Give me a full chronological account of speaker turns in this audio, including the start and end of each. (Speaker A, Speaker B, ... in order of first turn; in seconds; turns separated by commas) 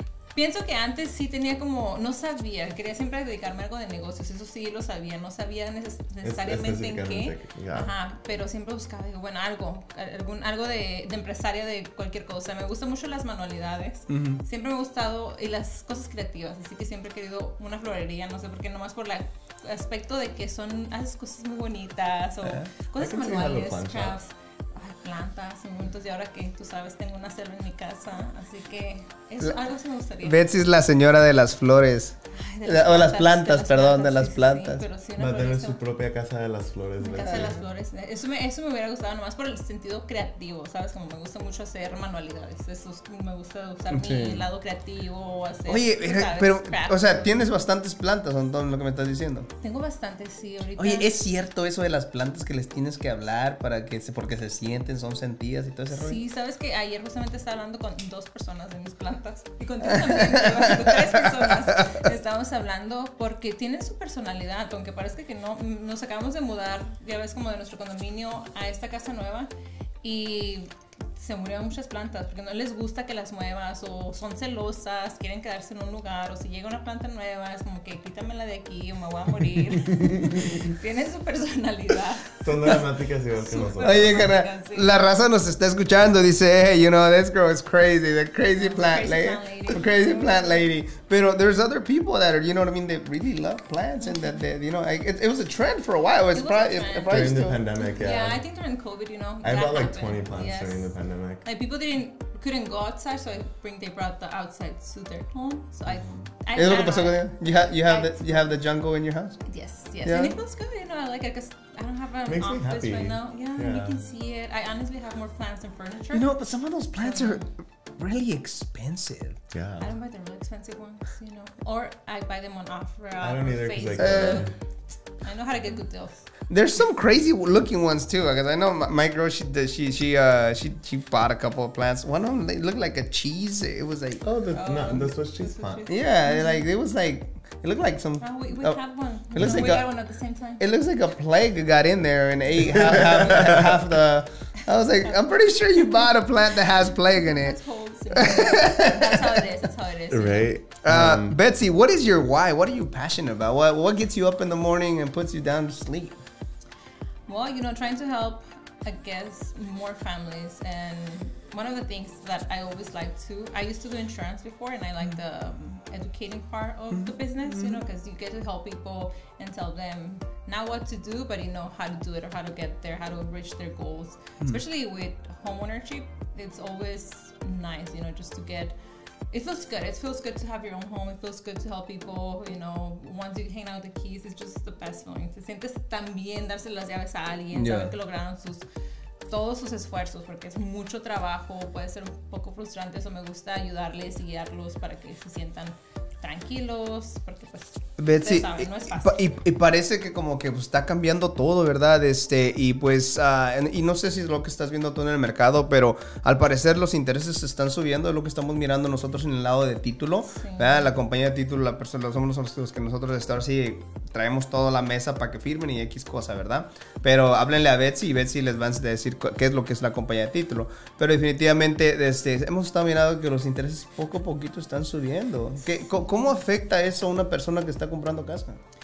Speaker A: 0.3-30.4, Speaker B: 6.2-7.9, Speaker C: 14.1-14.4, Speaker B: 23.0-24.2, Speaker C: 30.2-34.9, Speaker A: 32.3-35.8, Speaker B: 35.2-37.6, Speaker A: 37.0-47.3, Speaker C: 37.2-37.6, Speaker C: 43.9-44.5, Speaker C: 45.7-49.5, Speaker A: 49.6-51.1, Speaker C: 50.8-56.2, Speaker A: 55.9-69.5, Speaker C: 59.9-61.0, Speaker A: 70.0-82.8, Speaker B: 79.9-80.6, Speaker B: 82.4-84.3, Speaker A: 83.4-85.0, Speaker C: 83.8-97.6, Speaker A: 88.5-90.7, Speaker A: 94.0-94.4, Speaker A: 96.3-97.3, Speaker B: 97.1-98.4, Speaker A: 97.8-100.9, Speaker B: 99.4-101.4, Speaker A: 101.4-108.5, Speaker B: 105.9-106.3, Speaker C: 106.5-109.5, Speaker A: 109.5-116.3, Speaker C: 110.0-110.4, Speaker B: 112.3-114.0, Speaker C: 116.1-119.4, Speaker A: 117.0-117.5, Speaker B: 119.5-119.9, Speaker A: 119.8-124.5, Speaker B: 123.2-124.5, Speaker C: 124.0-124.5, Speaker A: 125.2-126.3, Speaker C: 126.5-134.2, Speaker B: 134.2-135.9, Speaker A: 134.5-136.7, Speaker C: 135.9-138.8, Speaker A: 138.2-140.6, Speaker C: 139.3-139.9, Speaker C: 140.6-147.6, Speaker B: 142.8-143.7, Speaker A: 145.0-146.1, Speaker A: 147.2-150.5, Speaker C: 148.2-149.2, Speaker B: 150.1-151.4, Speaker C: 150.8-156.2, Speaker A: 157.3-178.8, Speaker C: 166.9-167.8, Speaker A: 179.3-188.7, Speaker C: 187.5-187.9, Speaker A: 189.3-199.2, Speaker C: 198.0-228.6, Speaker A: 210.3-210.9, Speaker A: 225.9-226.4